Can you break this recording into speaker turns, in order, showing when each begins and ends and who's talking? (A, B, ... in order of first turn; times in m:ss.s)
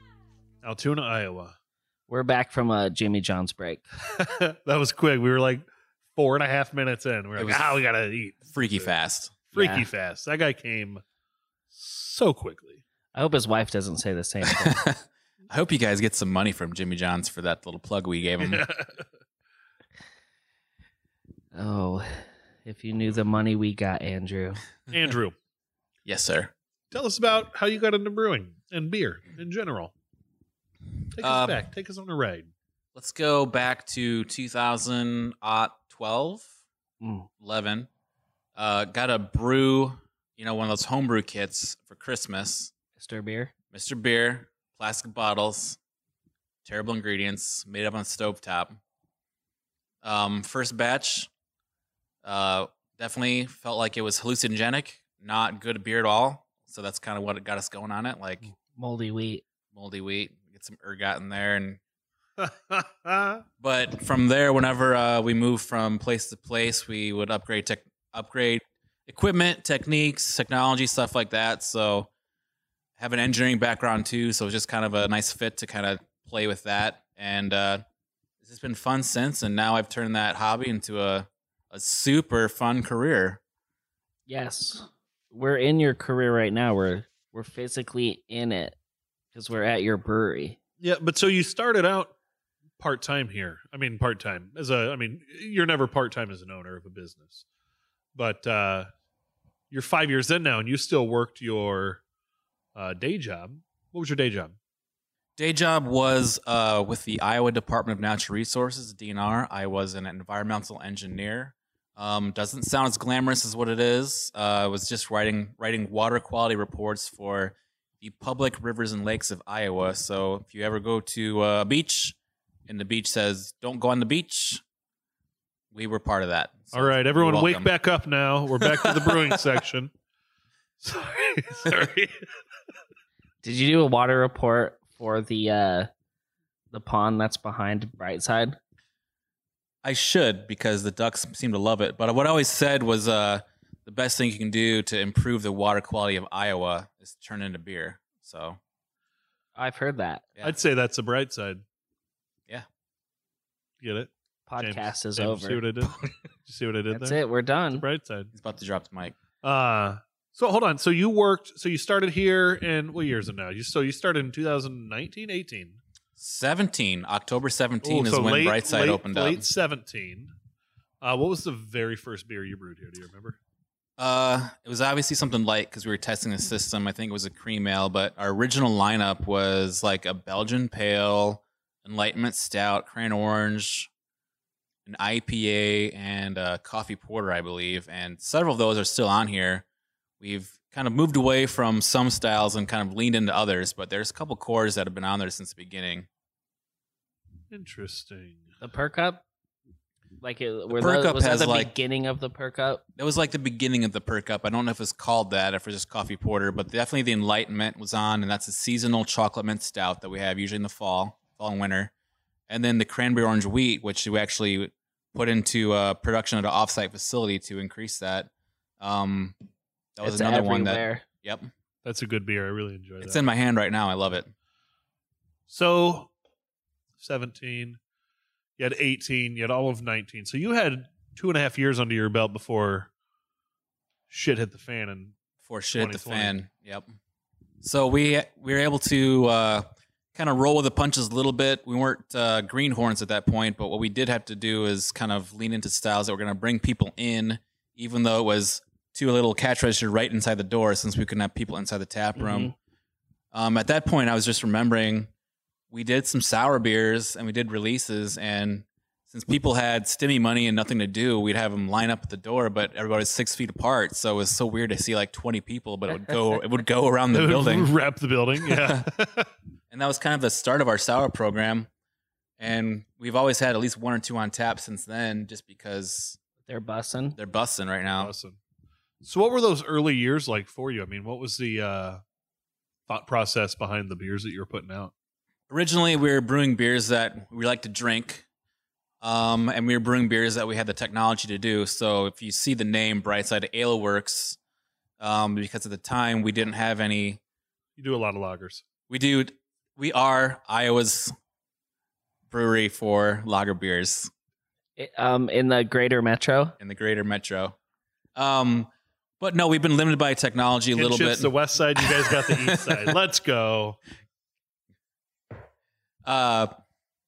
0:00.6-0:01.5 A
0:02.1-0:03.8 B
0:04.0-0:08.9 A
0:07.4-0:07.8 C
0:08.5-0:09.4 C
0:09.5-0:11.0 A
0:09.5-0:09.9 B
0:11.7-0:12.8 A
0:13.1-0:14.8 B
0:14.4-0:18.6 C
0:18.4-0:19.1 A
0:21.5-0:24.6 B
0:24.9-0:25.3 A
0:26.0-0:26.5 C
0:26.9-0:29.9 A
0:31.1-0:32.5 A
0:31.2-0:31.6 C
0:32.9-0:36.5 C
0:37.0-0:37.3 B
0:37.4-0:37.9 C
0:38.6-0:42.7 C
0:43.0-0:43.5 B
0:43.7-0:45.8 C
0:46.6-0:48.8 C
0:50.0-0:51.3 C
0:52.2-0:58.5 C
0:58.7-0:59.4 B
0:59.7-1:01.8 C
1:02.4-1:03.4 A
1:03.6-1:12.1 C
1:13.0-1:17.8 C
1:18.4-1:23.4 C
1:24.3-1:28.8 B
1:29.3-1:30.6 B
1:30.8-1:32.1 A
1:32.8-1:37.4 A
1:38.1-1:38.9 A
1:39.7-1:42.0 A
1:42.7-1:44.6 A
1:45.4-2:04.6 C
2:05.7-2:07.7 C
2:06.7-2:09.9 A
2:08.6-2:09.6 C
2:10.8-2:12.2 A
2:13.4-2:15.9 B
2:16.7-2:18.6 B
2:19.8-2:28.6 C
2:29.6-2:30.2 B
2:30.4-2:31.6 A
2:33.8-2:37.2 A
2:34.5-2:35.6 B
2:35.8-2:36.1 C
2:36.9-2:37.8 B
2:37.7-2:38.3 A
2:38.3-2:39.2 C
2:39.4-2:45.8 A
2:46.2-2:49.4 C
2:47.8-2:50.3 A
2:51.0-2:53.4 A
2:54.0-3:03.9 C
3:04.8-3:09.6 C
3:10.2-3:16.1 C
3:17.5-3:18.4 A
3:18.6-3:19.2 B
3:20.2-3:22.8 B
3:20.7-3:21.7 C
3:23.0-3:31.9 C
3:32.5-3:39.4 C
3:40.0-3:41.5 C
3:40.0-3:41.0 B
3:41.8-3:43.2 A
3:43.0-3:44.3 C
3:45.5-3:46.1 A
3:47.0-3:47.8 A
3:48.6-3:52.9 A
3:54.1-3:55.1 A
3:55.4-3:56.9 C
3:55.7-3:56.3 A
3:57.6-4:12.5 C
4:12.2-4:12.5 B
4:13.3-4:15.1 C
4:15.7-4:27.7 C
4:27.1-4:29.3 A
4:28.4-4:28.8 C
4:29.7-4:31.7 C
4:32.4-4:36.2 C
4:36.4-4:37.2 B
4:37.2-4:38.1 C
4:37.9-4:38.4 A
4:39.0-4:42.0 A
4:42.9-4:44.9 A
4:45.5-4:48.2 C
4:49.0-4:54.4 C
4:55.0-4:57.2 C
4:57.8-4:58.6 A
4:58.9-5:01.1 C
5:02.3-5:04.1 C
5:04.8-5:06.5 B
5:06.6-5:07.6 C
5:08.2-5:12.9 C
5:10.7-5:13.8 A
5:16.0-5:16.5 C